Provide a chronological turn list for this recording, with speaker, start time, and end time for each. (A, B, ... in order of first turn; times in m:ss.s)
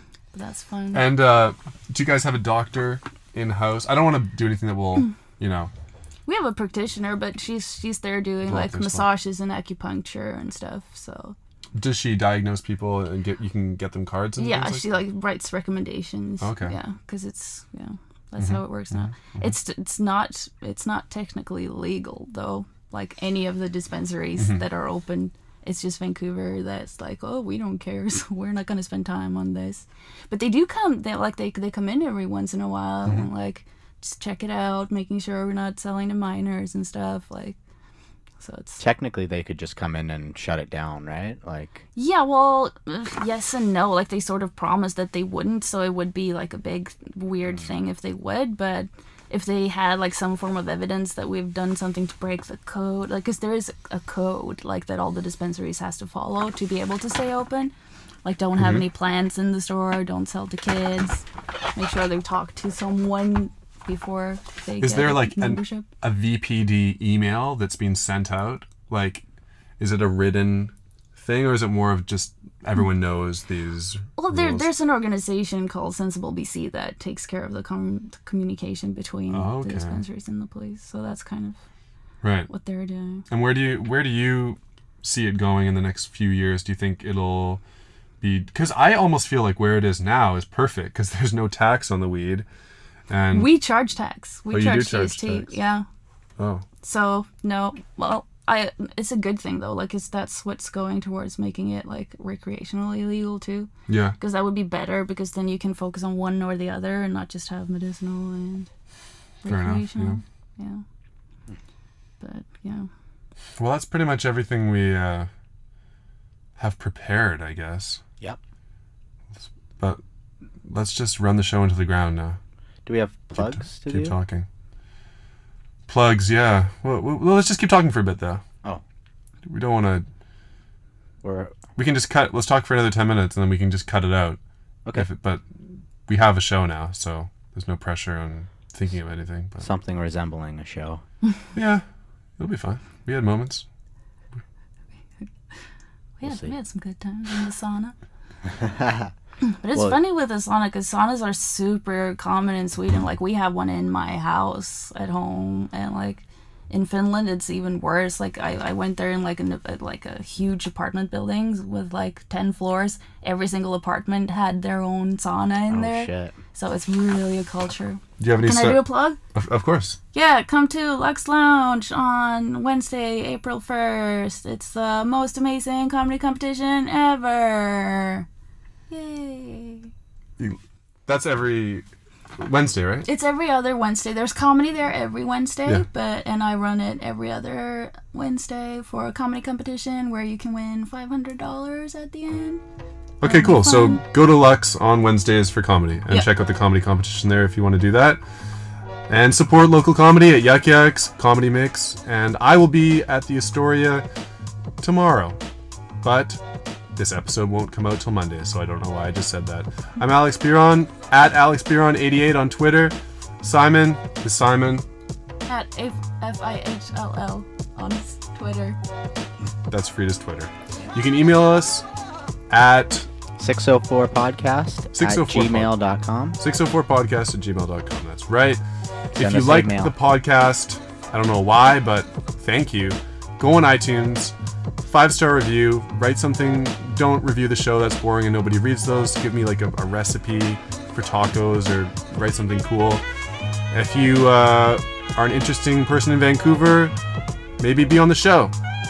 0:00.3-0:01.1 A
0:00.9-0:05.7 B
0:06.3-0:11.4 A
0:08.4-0:09.1 B
0:11.7-0:14.9 B
0:14.4-0:37.6 A
0:16.4-0:16.7 B
0:18.4-0:19.5 B
0:38.4-0:38.8 A
0:38.8-0:41.8 C
0:42.0-0:57.7 A
0:58.2-1:01.2 A
0:58.6-0:58.8 B
1:01.8-1:05.9 A
1:04.8-1:09.2 B
1:09.8-1:14.7 B
1:14.2-1:21.6 A
1:19.3-1:20.0 B
1:22.2-1:22.5 B
1:22.5-1:23.2 A
1:23.3-1:27.6 B
1:28.2-1:32.4 B
1:33.1-1:33.5 B
1:33.3-1:35.8 A
1:34.5-1:35.5 B
1:36.4-1:36.6 B
1:36.8-1:48.7 A
1:43.9-1:44.2 B
1:49.4-1:50.8 A
1:49.5-1:50.2 B
1:52.2-1:52.9 A
1:53.6-1:55.3 B
1:56.6-1:58.0 B
1:59.4-2:00.0 B
2:00.6-2:02.4 B
2:02.8-2:04.2 C
2:03.3-2:04.4 B
2:05.9-2:08.4 B
2:09.4-2:10.0 B
2:11.2-2:11.6 C
2:11.8-2:14.4 B
2:14.9-2:19.7 B
2:19.6-2:21.0 C
2:21.5-2:21.8 B
2:22.4-2:23.6 B
2:25.2-2:25.6 A
2:26.2-2:27.9 A
2:26.2-2:26.5 C
2:28.4-2:29.1 C
2:29.5-2:49.2 A
2:45.7-2:46.4 C
2:48.2-2:48.8 B
2:49.3-2:50.0 B
2:50.1-2:58.2 A
2:58.9-2:59.9 A
3:00.4-3:01.8 B
3:02.4-3:03.1 B
3:03.0-3:12.6 A
3:13.2-3:14.0 A
3:13.2-3:18.2 B
3:19.1-3:24.0 B
3:24.8-3:25.4 B
3:26.0-3:26.4 B
3:27.0-3:34.8 B
3:35.5-3:38.8 A
3:39.7-3:41.8 B
3:42.5-3:43.1 B
3:43.4-3:46.4 C
3:44.9-3:45.7 B
3:46.4-3:48.6 B
3:49.1-3:49.9 C
3:49.2-4:03.0 B
4:03.7-4:06.9 B
4:07.6-4:08.5 B